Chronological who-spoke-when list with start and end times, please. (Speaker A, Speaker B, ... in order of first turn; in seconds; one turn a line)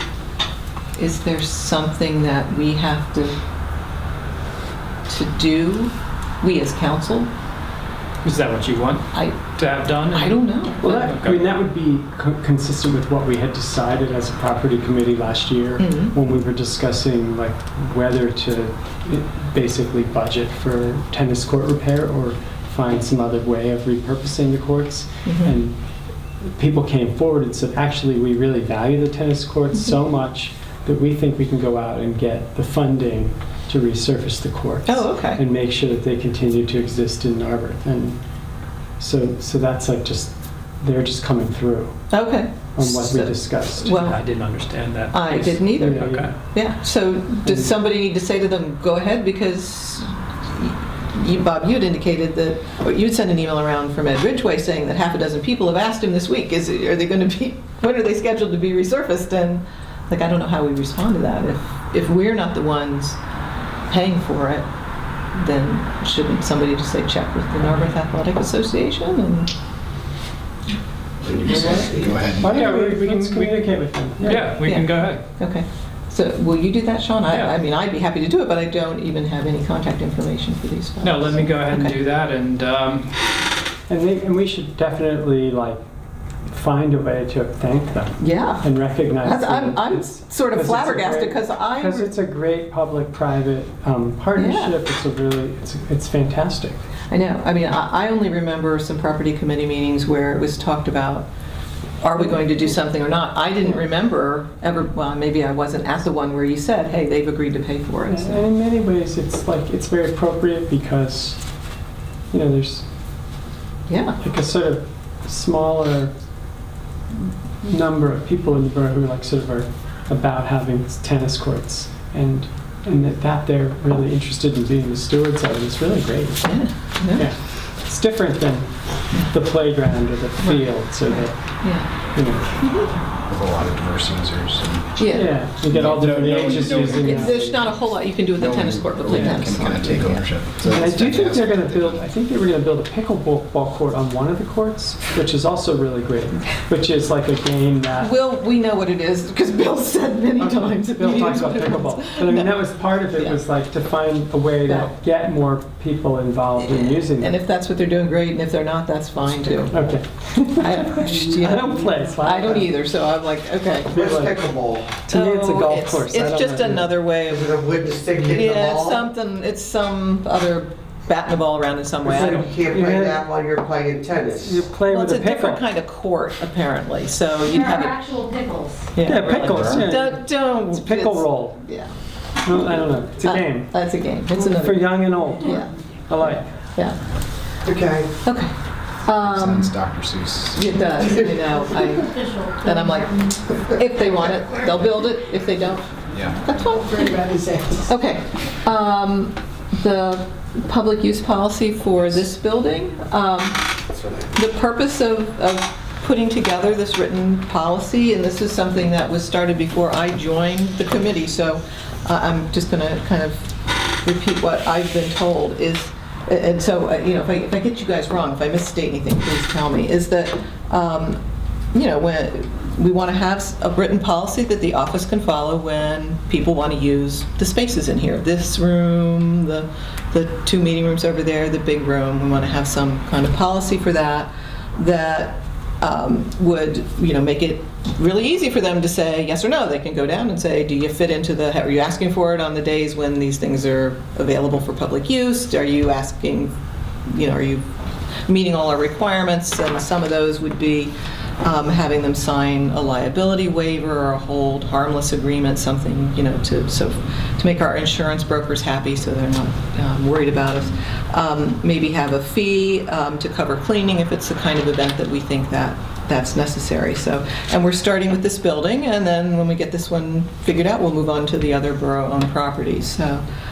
Speaker A: 1.0-3.4
Speaker A: 5.1-7.3
Speaker B: 8.2-9.0
Speaker A: 9.1-9.4
Speaker B: 9.6-11.5
Speaker A: 10.1-11.0
Speaker C: 10.8-25.8
Speaker A: 15.8-16.1
Speaker A: 25.2-25.6
Speaker C: 26.4-38.2
Speaker A: 34.9-35.4
Speaker C: 39.0-42.0
Speaker A: 42.1-44.2
Speaker C: 42.8-44.0
Speaker B: 44.0-46.3
Speaker A: 45.1-63.2
Speaker C: 45.8-46.3
Speaker C: 47.5-47.7
Speaker A: 63.9-64.7
Speaker A: 65.3-69.5
Speaker A: 71.5-71.9
Speaker C: 71.5-74.6
Speaker D: 71.5-72.2
Speaker E: 71.9-72.7
Speaker B: 72.5-73.5
Speaker B: 74.2-75.2
Speaker A: 74.6-82.0
Speaker B: 77.3-77.5
Speaker B: 81.0-83.2
Speaker C: 83.9-85.8
Speaker C: 86.5-96.8
Speaker A: 88.2-92.1
Speaker A: 94.3-94.8
Speaker A: 97.1-101.3
Speaker A: 102.0-108.4
Speaker C: 108.1-111.5
Speaker C: 112.3-112.9
Speaker A: 113.9-114.2
Speaker C: 114.2-116.1
Speaker C: 117.6-126.6
Speaker A: 126.4-127.3
Speaker C: 127.1-132.6
Speaker A: 130.4-132.0
Speaker A: 132.6-133.1
Speaker E: 133.3-135.0
Speaker A: 135.0-135.3
Speaker C: 135.0-137.8
Speaker E: 135.7-137.6
Speaker A: 136.1-140.3
Speaker E: 138.4-142.0
Speaker C: 139.1-139.4
Speaker C: 140.6-148.1
Speaker A: 148.0-153.4
Speaker C: 150.5-157.3
Speaker A: 154.7-154.9
Speaker A: 156.6-159.8
Speaker C: 159.7-160.1
Speaker A: 160.4-164.0
Speaker C: 161.2-162.7
Speaker D: 163.9-164.9
Speaker C: 164.0-166.9
Speaker A: 165.1-172.5
Speaker D: 167.3-169.0
Speaker D: 172.1-174.6
Speaker B: 172.2-172.4
Speaker C: 172.3-173.2
Speaker C: 174.3-175.6
Speaker A: 174.9-178.1
Speaker F: 177.5-178.9
Speaker A: 178.9-181.9
Speaker C: 179.0-181.6
Speaker E: 179.5-179.8
Speaker C: 182.4-183.7
Speaker A: 183.2-185.7
Speaker C: 184.3-186.6
Speaker D: 187.7-188.1
Speaker A: 188.2-188.5
Speaker A: 189.1-189.7
Speaker E: 189.2-190.7
Speaker A: 190.5-197.2
Speaker F: 192.1-193.4
Speaker E: 196.1-196.4
Speaker D: 197.0-197.6
Speaker A: 197.9-203.6
Speaker A: 204.4-213.5
Speaker A: 214.0-221.2
Speaker A: 221.7-246.5
Speaker A: 247.1-247.7
Speaker A: 248.3-273.2